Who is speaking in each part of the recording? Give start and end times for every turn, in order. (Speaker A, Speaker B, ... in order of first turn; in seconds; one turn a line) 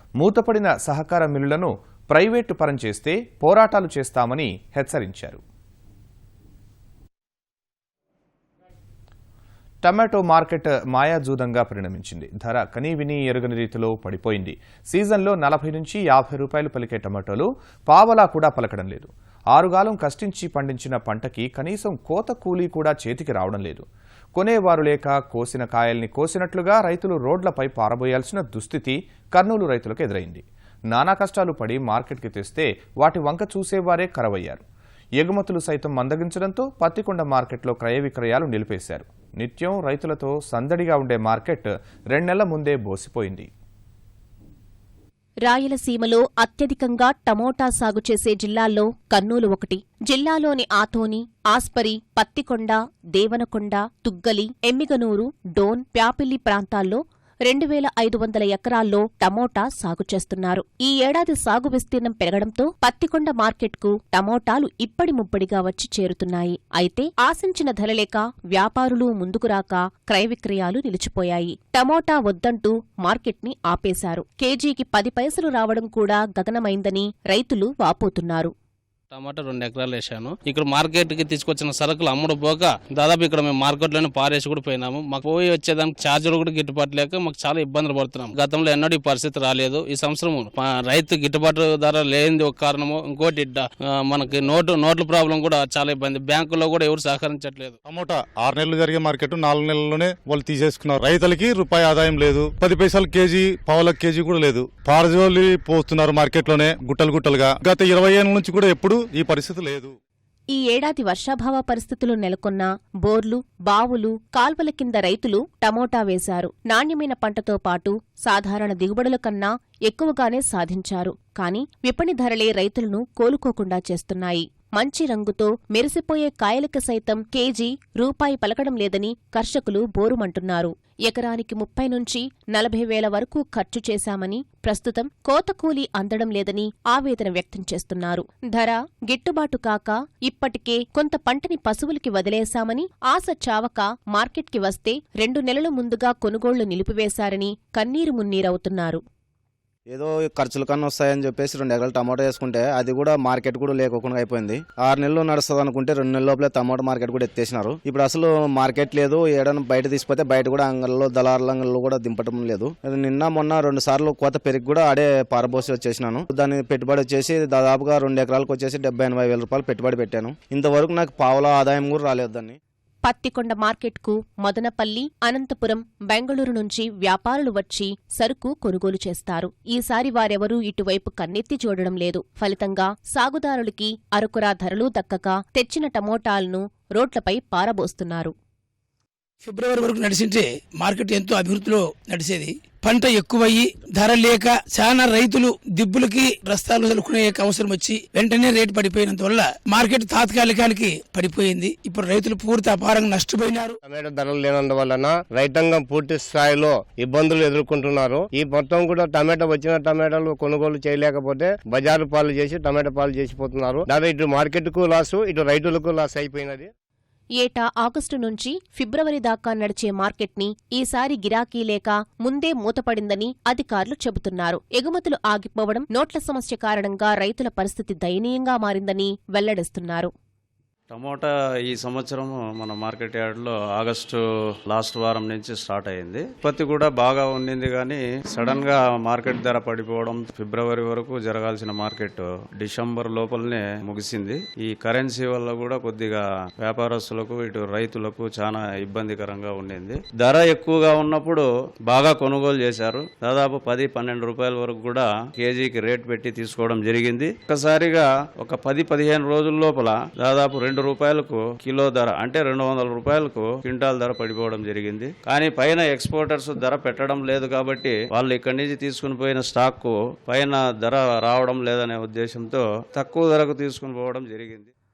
Speaker A: 0.2-5.4
Speaker A: 9.8-34.6
Speaker A: 35.2-43.5
Speaker B: 45.5-78.5
Speaker C: 79.1-97.8
Speaker D: 97.8-109.9
Speaker B: 110.5-149.0
Speaker E: 149.9-172.6
Speaker B: 173.0-188.3
Speaker F: 189.5-203.7
Speaker G: 203.8-216.7
Speaker B: 217.4-230.1
Speaker H: 230.9-274.7